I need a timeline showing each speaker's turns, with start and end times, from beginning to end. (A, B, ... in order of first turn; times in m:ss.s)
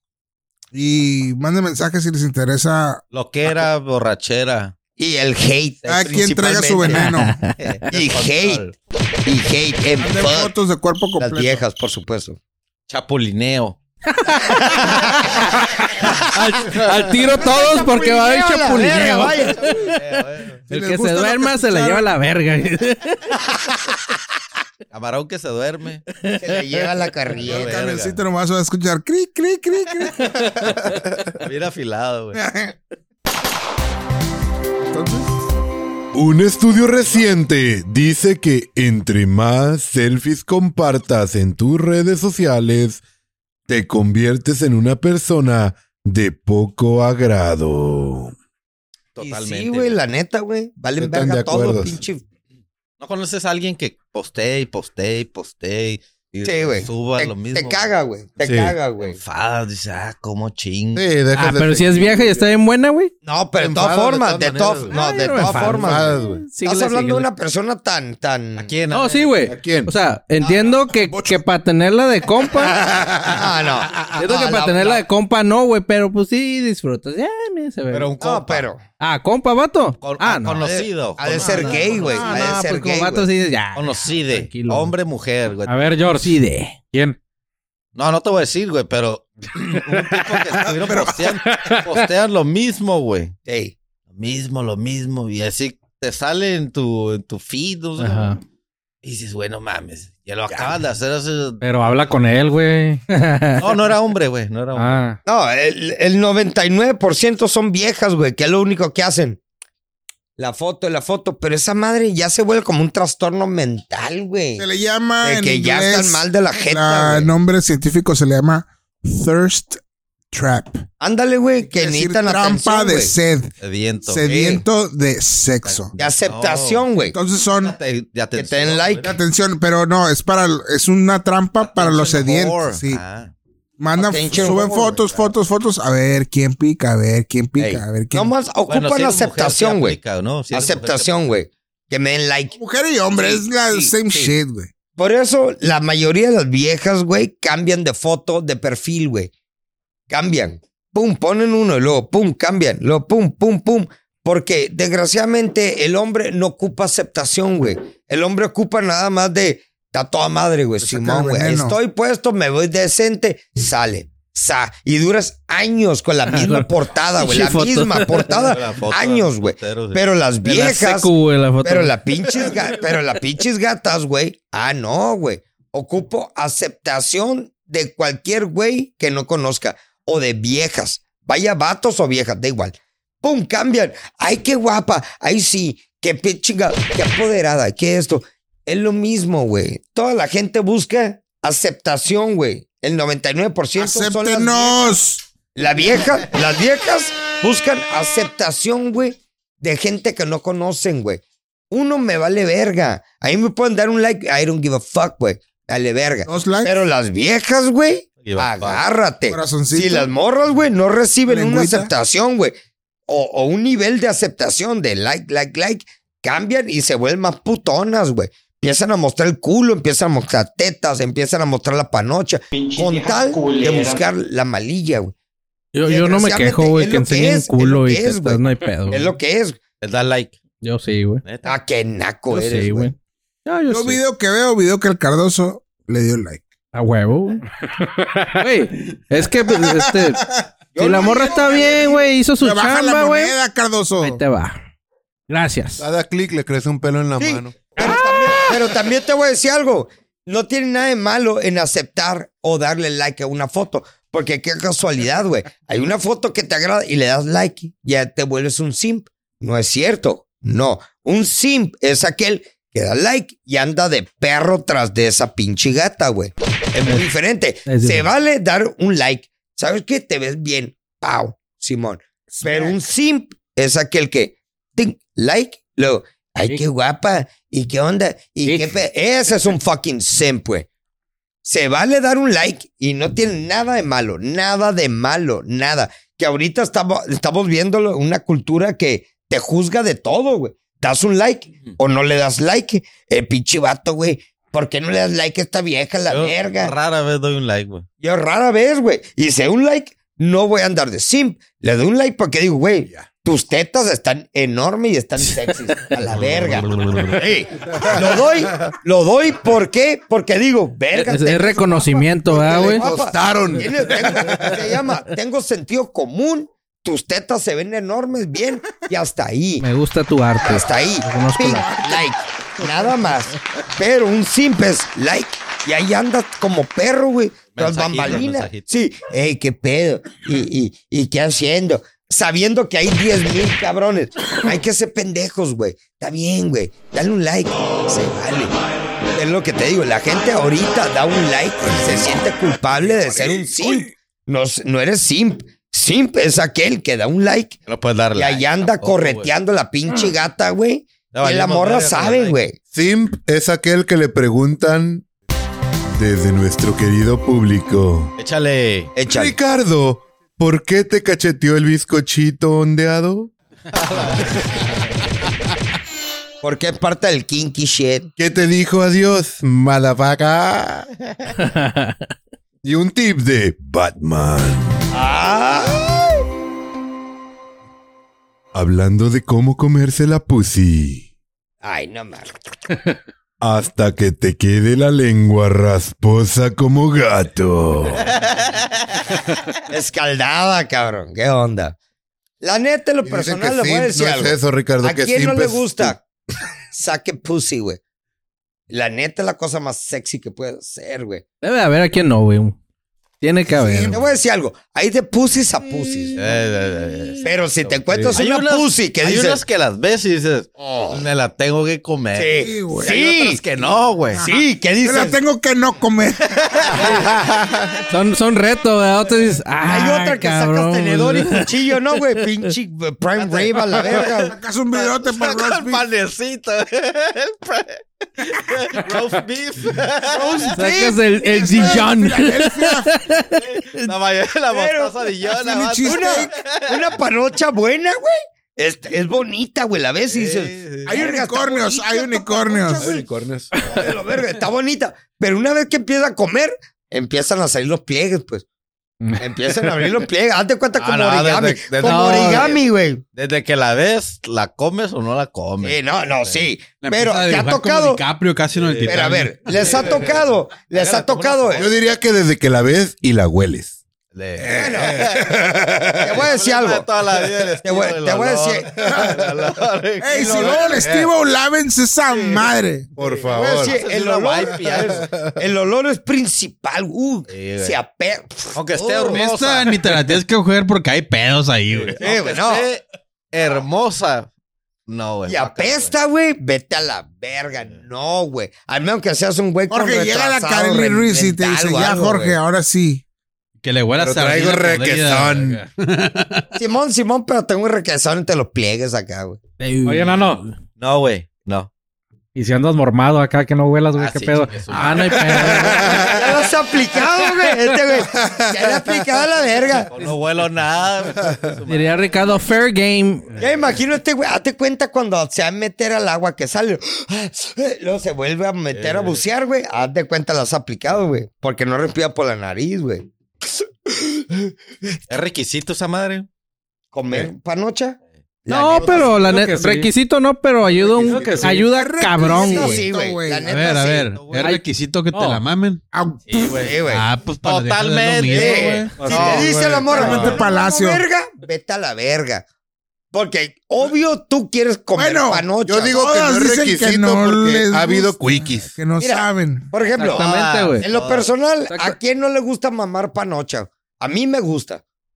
0:00.7-0:03.0 A
0:03.1-0:04.8 B
0:05.0-0:07.1 C
0:05.9-0:07.4 A
0:05.9-0:06.2 B
0:06.9-0:07.6 D
0:07.6-0:08.7 B
0:07.9-0:08.7 C
0:09.3-0:10.5 C
0:10.0-0:11.6 A
0:11.2-0:12.4 C
0:12.9-0:13.8 B
0:14.1-0:15.6 D
0:16.2-0:23.4 D
0:17.4-0:19.8 C
0:19.5-0:20.6 B
0:20.7-0:22.2 A
0:24.9-0:26.0 B
0:26.1-0:26.6 D
0:26.4-0:27.8 C
0:27.4-0:28.2 B
0:27.4-0:30.3 A
0:30.2-0:30.6 D
0:31.4-0:32.4 B
0:32.3-0:32.8 A
0:34.8-0:35.5 A
0:36.1-0:43.0 E
0:43.7-0:48.3 E
0:49.2-0:50.0 B
0:49.2-0:52.2 C
0:51.0-0:52.0 E
0:53.0-0:57.9 B
0:56.4-0:59.2 C
0:58.4-0:58.8 E
0:59.0-1:01.1 B
1:01.0-1:02.5 E
1:01.3-1:03.1 D
1:03.2-1:08.7 C
1:03.6-1:04.9 E
1:04.5-1:05.0 B
1:04.9-1:07.3 D
1:05.5-1:06.4 E
1:08.6-1:09.5 B
1:08.9-1:12.8 D
1:09.5-1:09.9 E
1:10.4-1:10.9 B
1:12.5-1:14.2 E
1:13.2-1:15.0 C
1:14.0-1:18.1 D
1:17.9-1:18.7 B
1:18.2-1:18.8 C
1:19.0-1:20.7 D
1:20.0-1:22.3 B
1:20.6-1:23.3 C
1:21.4-1:24.9 D
1:22.0-1:22.6 A
1:23.8-1:26.0 B
1:25.7-1:27.2 F
1:26.1-1:26.8 D
1:28.0-1:33.3 B
1:30.6-1:31.4 A
1:31.4-1:32.0 F
1:33.5-1:33.8 C
1:34.1-1:38.3 B
1:38.0-1:38.4 D
1:39.0-1:41.6 B
1:41.6-1:43.0 F
1:43.1-1:43.6 D
1:43.6-1:45.0 B
1:44.8-1:45.2 F
1:45.2-1:49.4 C
1:50.4-1:54.7 C
1:54.6-2:00.8 A
1:55.2-1:57.3 C
2:01.0-2:03.1 C
2:01.6-2:05.9 A
2:03.6-2:04.2 B
2:04.2-2:04.6 C
2:05.6-2:06.9 B
2:06.0-2:07.2 C
2:07.1-2:07.8 A
2:07.6-2:09.1 B
2:08.4-2:09.1 C
2:09.0-2:13.0 A
2:11.6-2:13.3 B
2:13.8-2:18.3 A
2:14.0-2:15.3 C
2:17.6-2:20.0 C
2:18.7-2:21.2 B
2:20.5-2:22.6 C
2:22.5-2:24.7 A
2:23.2-2:24.3 B
2:25.0-2:29.3 C
2:30.1-3:14.8 C
2:40.8-2:41.8 A
2:46.3-2:48.4 D
2:48.4-2:50.6 B
2:50.5-2:52.0 D
3:13.8-3:15.3 A
3:15.6-3:32.6 C
3:26.3-3:26.8 A
3:28.2-3:28.8 B
3:29.3-3:30.1 A
3:31.3-3:31.9 A
3:33.1-3:45.1 C
3:45.7-3:49.1 D
3:45.8-3:49.6 C
3:49.8-3:50.6 B
3:50.6-3:51.2 D
3:51.2-3:51.6 B
3:51.4-3:52.9 C
3:52.3-3:54.0 D
3:53.7-3:56.4 A
3:56.7-3:57.4 D
3:57.8-3:58.4 F
3:58.4-4:03.4 D
4:00.7-4:02.1 C
4:01.3-4:01.6 A
4:02.4-4:04.2 A
4:04.0-4:04.6 D
4:05.3-4:05.8 D
4:05.8-4:07.6 E
4:07.2-4:40.7 C
4:07.8-4:08.7 D
4:27.7-4:28.1 D
4:32.4-4:32.8 A
4:41.4-4:56.7 C
4:56.1-4:57.9 B
4:58.0-5:19.7 C
5:06.2-5:06.6 B
5:07.8-5:08.6 E
5:10.9-5:12.9 D
5:12.4-5:14.6 E
5:19.6-5:21.9 D
5:20.4-5:38.6 C
5:27.5-5:28.9 B
5:39.2-5:47.6 C
5:42.6-5:43.4 B
5:47.7-5:49.3 B
5:48.1-5:52.6 C
5:51.1-5:52.4 B
5:52.7-5:55.0 E
5:55.9-5:58.1 E
5:58.2-5:58.9 B
5:59.0-5:59.4 C
5:59.0-6:03.3 E
6:03.8-6:04.7 B
6:06.4-6:08.1 C
6:08.2-6:10.9 E
6:11.4-6:12.1 D
6:12.6-6:14.9 E
6:14.9-6:15.9 C
6:18.5-6:21.1 E
6:21.6-6:22.3 C
6:23.4-6:28.1 E
6:28.0-6:29.2 B
6:29.7-6:31.8 C
6:32.4-6:36.0 C
6:33.0-6:36.0 E
6:36.7-6:37.8 C
6:38.7-6:41.2 C
6:41.4-6:42.6 D
6:43.2-6:44.0 D
6:43.5-6:46.3 C
6:46.2-6:54.3 B
6:47.2-6:49.4 C
6:47.9-6:48.2 E
6:50.6-6:51.0 C
6:52.1-6:53.4 C
6:52.4-6:53.0 A
6:54.1-6:57.0 A
6:54.2-6:55.2 C
6:56.6-6:57.8 B
6:57.9-7:02.5 D
6:59.7-7:04.4 C
7:03.2-7:04.1 B
7:03.9-7:05.8 A
7:04.7-7:10.6 B
7:10.1-7:13.0 A
7:10.5-7:13.4 D
7:10.6-7:11.9 C
7:13.4-7:17.0 B
7:14.5-7:15.1 C
7:15.3-7:16.3 A
7:15.8-7:23.0 C
7:20.1-7:21.0 B
7:20.9-7:22.9 A
7:22.8-7:23.5 E
7:23.6-7:28.4 C
7:23.6-7:23.8 D
7:29.2-7:33.0 C
7:30.8-7:36.5 B
7:31.8-7:32.1 E
7:35.6-7:38.0 C
7:36.8-7:40.0 G
7:38.5-7:41.8 B
7:38.9-7:41.7 C
7:41.6-7:43.8 E
7:44.1-7:51.1 B
7:44.4-7:45.1 C
7:44.6-7:45.0 A
7:46.0-7:47.0 C
7:47.6-7:49.0 C
7:48.9-7:49.3 E
7:50.0-7:52.9 A
7:50.1-7:51.0 C
7:52.1-7:55.2 B
7:53.0-7:53.8 E
7:53.3-7:59.2 C
7:54.8-7:55.1 E
7:57.3-7:57.8 B
7:58.6-8:00.0 B
7:59.0-8:02.0 G
8:01.7-8:04.3 B
8:02.0-8:02.7 C
8:04.9-8:05.9 B
8:05.3-8:12.4 C
8:09.7-8:13.0 A
8:13.6-8:16.5 G
8:14.0-8:15.6 E
8:16.6-8:19.4 C
8:19.6-8:20.6 D
8:19.8-8:20.4 F
8:20.8-8:21.7 B
8:22.4-8:24.7 F
8:23.9-8:26.1 B
8:24.7-8:26.1 D
8:25.5-8:29.9 C
8:25.7-8:26.1 E
8:28.2-8:29.0 E
8:29.4-8:32.5 B
8:31.2-8:31.5 E
8:31.7-8:33.4 D
8:33.4-8:33.7 B
8:33.4-8:45.0 C
8:38.7-8:39.2 B
8:45.1-8:46.3 B
8:46.9-8:49.4 C
8:48.5-8:52.8 D
8:48.8-8:49.3 B
8:49.3-8:49.9 F
8:50.7-8:51.7 B
8:51.1-8:51.6 F
8:51.5-8:53.5 A
8:52.0-8:54.2 C
8:53.5-8:55.8 G
8:54.1-8:54.6 B
8:55.1-8:55.4 F
8:55.9-8:56.7 A
8:56.3-8:56.8 B
8:56.6-8:57.0 C
8:56.8-8:59.0 G
8:57.4-9:00.4 B
8:58.3-9:02.4 C
8:59.0-8:59.8 F
8:59.8-9:01.0 A
9:00.0-9:00.3 E
9:03.1-9:06.0 C
9:05.0-9:09.7 A
9:05.7-9:08.7 E
9:09.0-9:10.2 C
9:10.0-9:10.8 D
9:10.0-9:11.3 B
9:10.8-9:14.8 C
9:11.7-9:12.0 D